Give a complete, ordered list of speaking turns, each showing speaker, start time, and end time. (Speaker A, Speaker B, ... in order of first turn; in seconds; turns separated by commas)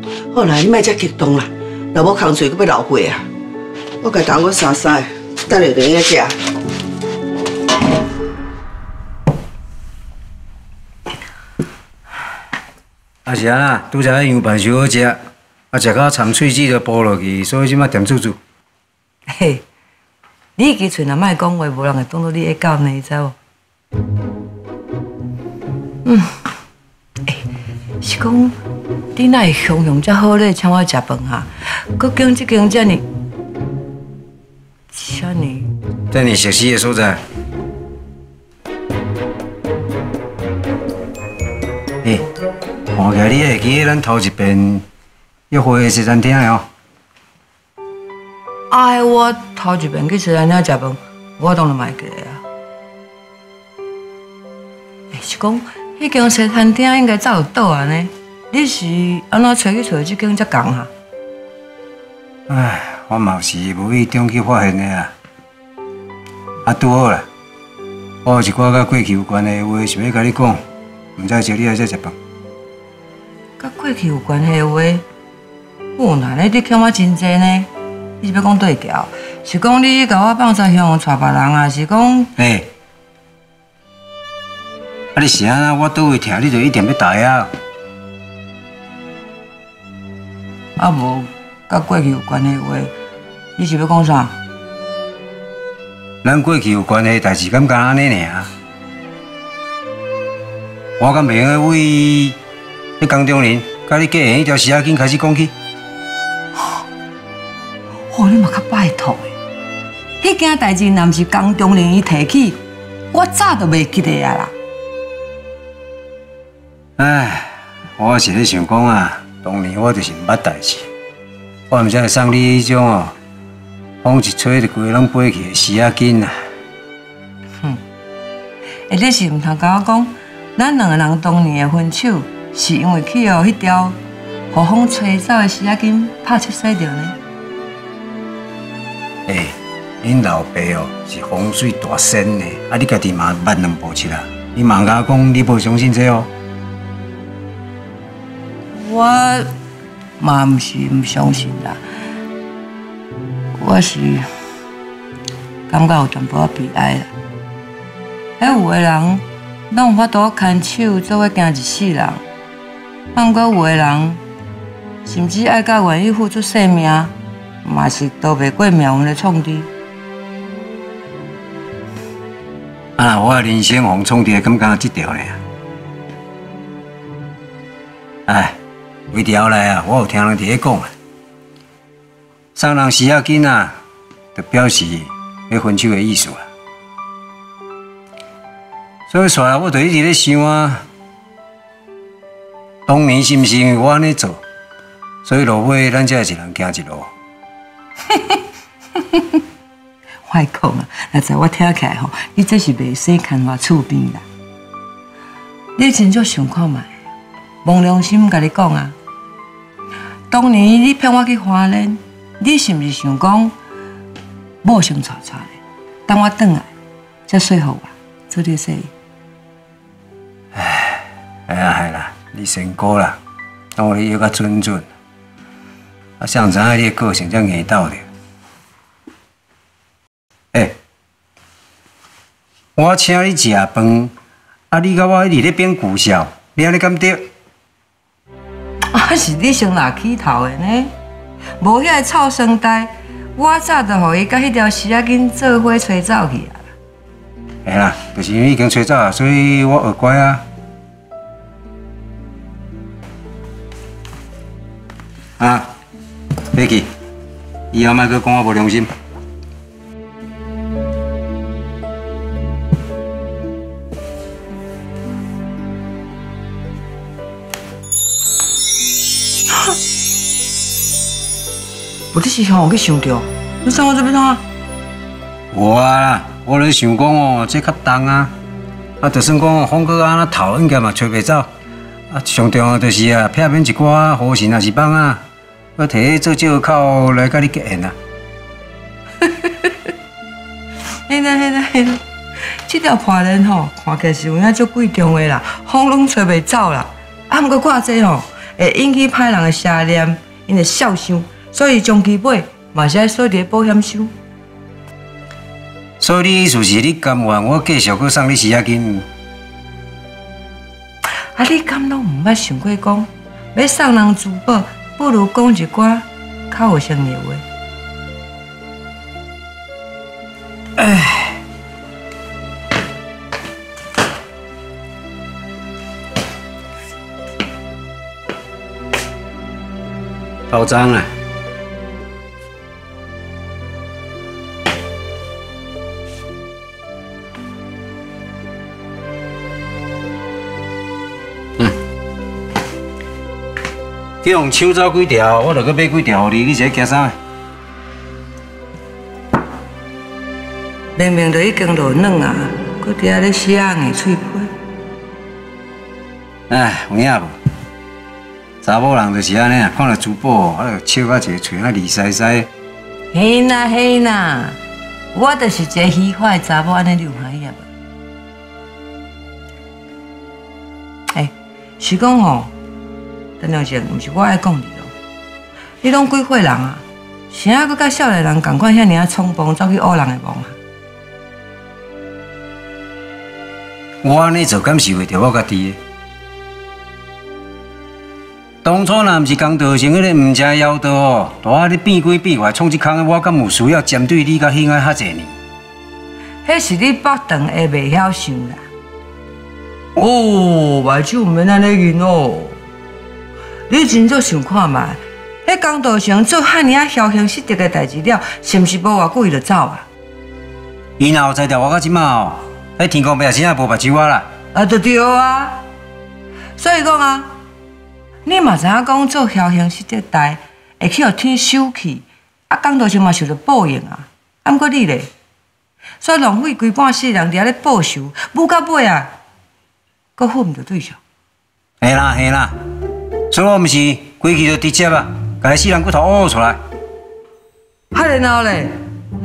Speaker A: 0.3-3.2, Speaker A: 4.0-6.3, Speaker B: 13.2-15.2, Speaker B: 15.7-18.4, Speaker C: 19.3-19.6, Speaker C: 20.6-23.3, Speaker C: 26.0-26.3, Speaker C: 28.0-28.5, Speaker C: 29.1-33.0, Speaker C: 34.9-35.7, Speaker B: 36.1-37.2, Speaker B: 42.9-44.9, Speaker B: 45.5-46.7, Speaker C: 48.7-52.4, Speaker C: 55.1-60.9, Speaker B: 62.5-65.1, Speaker B: 66.7-67.2, Speaker B: 68.2-70.6, Speaker B: 71.2-72.2, Speaker C: 73.6-75.0, Speaker C: 76.0-77.7, Speaker C: 78.2-82.3, Speaker B: 82.4-82.7, Speaker B: 85.1-87.5, Speaker C: 90.8-92.9, Speaker C: 93.6-94.3, Speaker B: 96.2-98.5, Speaker B: 101.0-102.4, Speaker B: 103.0-105.5, Speaker C: 108.1-109.3, Speaker C: 110.2-112.6, Speaker C: 113.1-114.5, Speaker B: 117.0-120.9, Speaker B: 121.7-123.1, Speaker B: 124.0-126.3, Speaker C: 128.9-134.0, Speaker C: 134.5-137.2, Speaker B: 139.3-146.3, Speaker C: 148.7-149.5, Speaker C: 150.2-151.8, Speaker C: 153.5-154.3, Speaker C: 155.7-157.1, Speaker C: 158.4-162.2, Speaker C: 163.1-164.2, Speaker C: 165.0-169.7, Speaker B: 173.0-175.4, Speaker B: 178.3-178.6, Speaker B: 179.1-180.9, Speaker B: 182.5-183.7, Speaker B: 184.3-186.5, Speaker B: 189.1-190.8, Speaker B: 192.9-194.4, Speaker B: 195.2-197.1, Speaker C: 198.1-198.4, Speaker C: 200.2-204.2, Speaker C: 205.8-206.9, Speaker C: 207.6-208.9, Speaker C: 210.3-213.5, Speaker C: 214.6-216.7, Speaker C: 217.3-218.9, Speaker B: 220.5-223.2, Speaker B: 223.8-224.9, Speaker B: 226.2-228.1, Speaker B: 232.8-234.1, Speaker B: 234.7-237.3, Speaker C: 238.9-240.9, Speaker C: 241.6-246.7, Speaker B: 247.6-250.4, Speaker B: 255.4-255.7, Speaker B: 256.5-256.9, Speaker B: 257.7-258.9, Speaker C: 272.1-274.4, Speaker B: 275.5-278.3, Speaker B: 279.0-281.5, Speaker B: 282.1-285.2, Speaker B: 285.8-287.9, Speaker C: 289.2-289.7, Speaker C: 291.1-292.0, Speaker C: 292.6-304.1, Speaker B: 306.0-309.0, Speaker C: 311.3-317.4, Speaker B: 320.8-321.4, Speaker B: 330.5-331.1, Speaker B: 344.2-347.1, Speaker C: 350.9-354.5, Speaker B: 356.5-357.3, Speaker B: 358.6-362.5, Speaker C: 363.1-364.6, Speaker C: 365.1-367.7, Speaker C: 371.1-372.5, Speaker C: 373.4-374.9, Speaker C: 375.8-380.6, Speaker B: 384.0-385.8, Speaker B: 388.6-395.3, Speaker C: 396.4-398.6, Speaker C: 399.9-402.6, Speaker C: 403.7-409.9, Speaker B: 411.0-414.3, Speaker C: 414.5-415.6, Speaker C: 416.6-417.3, Speaker C: 418.2-425.1, Speaker C: 426.0-429.1, Speaker C: 430.2-431.0, Speaker B: 431.8-432.6, Speaker B: 433.3-436.6, Speaker C: 437.9-438.8